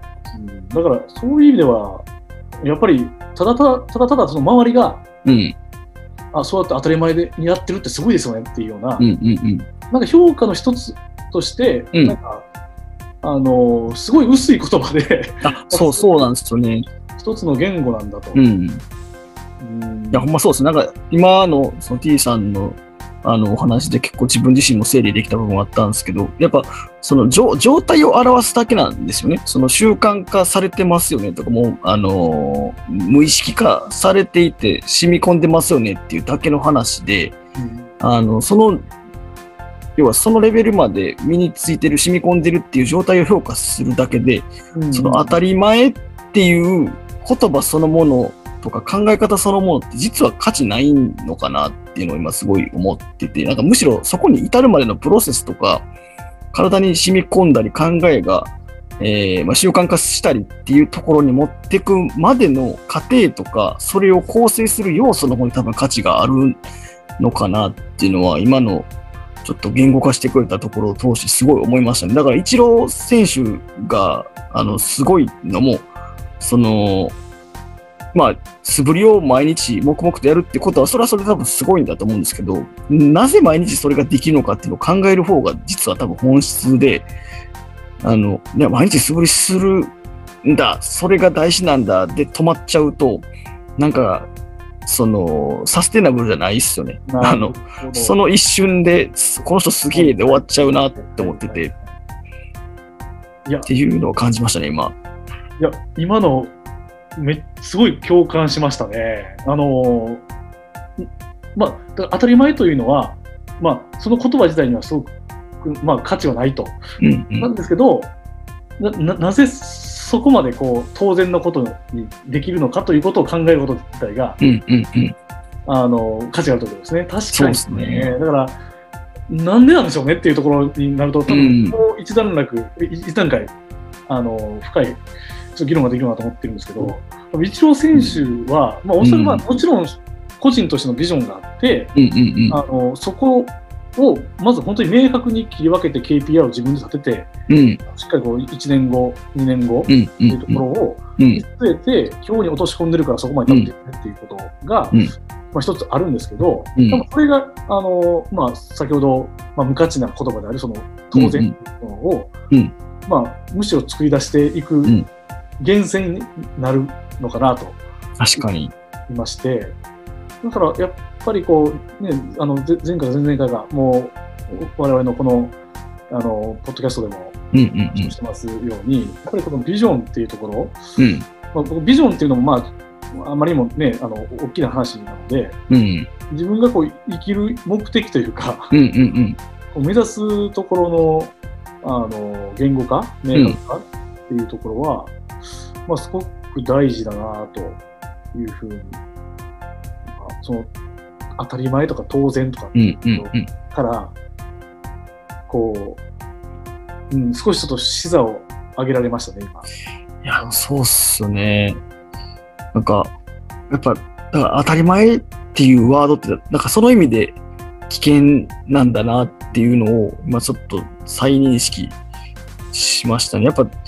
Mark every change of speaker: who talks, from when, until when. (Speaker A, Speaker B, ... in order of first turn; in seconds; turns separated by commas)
Speaker A: 0.3-2.1, Speaker A: 2.6-5.0, Speaker B: 5.2-5.5, Speaker A: 6.3-9.1, Speaker B: 9.0-9.7, Speaker A: 9.9-12.5, Speaker A: 13.2-16.3, Speaker B: 15.4-16.9, Speaker A: 17.2-18.4, Speaker B: 18.4-18.8, Speaker A: 19.6-20.3, Speaker B: 20.1-37.4, Speaker A: 37.6-37.9, Speaker B: 38.0-38.8, Speaker B: 40.0-55.9, Speaker A: 44.7-45.4, Speaker B: 56.5-66.6, Speaker B: 67.2-68.9, Speaker B: 69.4-75.9, Speaker B: 76.4-77.2, Speaker B: 78.1-87.1, Speaker B: 88.0-94.3, Speaker B: 94.9-101.7, Speaker A: 97.1-98.2, Speaker A: 99.9-101.8, Speaker B: 103.7-105.0, Speaker A: 105.6-106.5, Speaker A: 107.2-110.2, Speaker A: 111.0-116.8, Speaker B: 117.0-117.5, Speaker A: 117.4-118.1, Speaker A: 118.8-124.4, Speaker B: 124.4-125.2, Speaker A: 125.7-128.6, Speaker B: 127.3-128.1, Speaker A: 129.3-133.5, Speaker B: 131.3-131.8, Speaker A: 134.1-141.9, Speaker B: 137.9-138.2, Speaker B: 139.0-139.5, Speaker B: 141.9-142.6, Speaker A: 142.5-147.3, Speaker B: 147.5-147.8, Speaker A: 147.8-155.0, Speaker B: 149.9-150.6, Speaker B: 151.2-151.4, Speaker A: 155.5-162.3, Speaker B: 156.8-157.1, Speaker B: 161.1-161.5, Speaker A: 163.1-165.0, Speaker A: 165.6-167.8, Speaker B: 168.2-168.7, Speaker A: 169.1-169.8, Speaker A: 170.4-175.6, Speaker A: 176.1-180.8, Speaker B: 177.5-178.2, Speaker B: 181.0-181.3, Speaker A: 181.5-185.6, Speaker B: 185.7-186.1, Speaker A: 186.3-188.7, Speaker B: 188.7-189.4, Speaker A: 189.7-195.2, Speaker B: 193.3-193.6, Speaker A: 195.9-197.8, Speaker A: 198.3-199.0, Speaker A: 200.1-200.7, Speaker A: 201.4-204.2, Speaker B: 202.8-203.5, Speaker A: 205.5-206.0, Speaker A: 207.1-209.7, Speaker B: 210.2-211.8, Speaker B: 212.7-213.1, Speaker B: 213.7-217.4, Speaker B: 217.9-222.0, Speaker B: 222.7-223.7